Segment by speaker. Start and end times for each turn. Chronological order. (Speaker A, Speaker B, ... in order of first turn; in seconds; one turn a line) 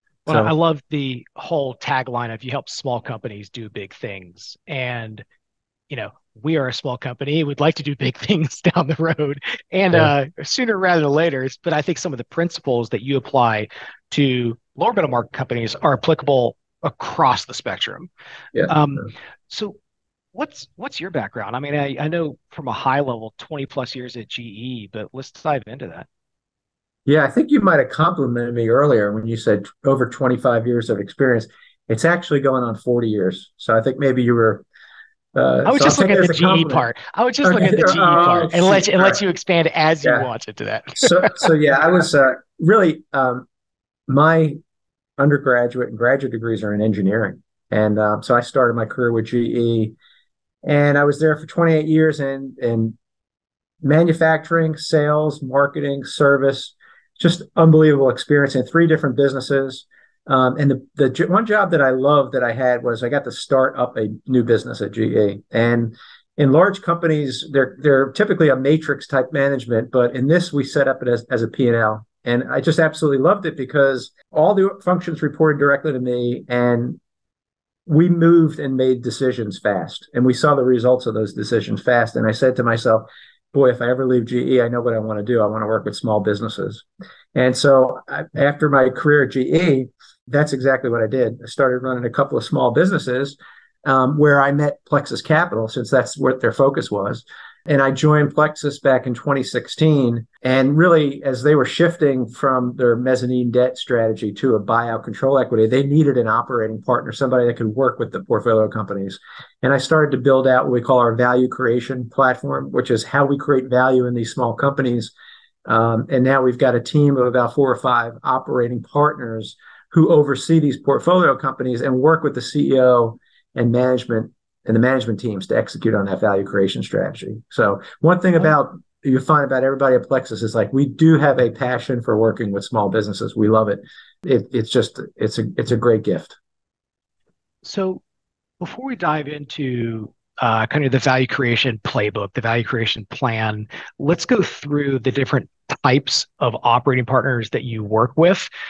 Speaker A: 0.2-5.2
Speaker B: 0.3-0.5
Speaker A: 5.9-18.1
Speaker A: 18.6-19.7
Speaker A: 20.3-26.1
Speaker B: 27.1-34.6
Speaker B: 35.3-36.9
Speaker A: 35.6-41.4
Speaker B: 37.4-39.2
Speaker B: 41.0-43.5
Speaker B: 44.1-44.6
Speaker B: 45.2-49.9
Speaker B: 50.6-53.0
Speaker B: 53.8-77.0
Speaker B: 77.9-115.1
Speaker B: 115.7-136.3
Speaker A: 137.6-138.0
Speaker A: 138.6-148.5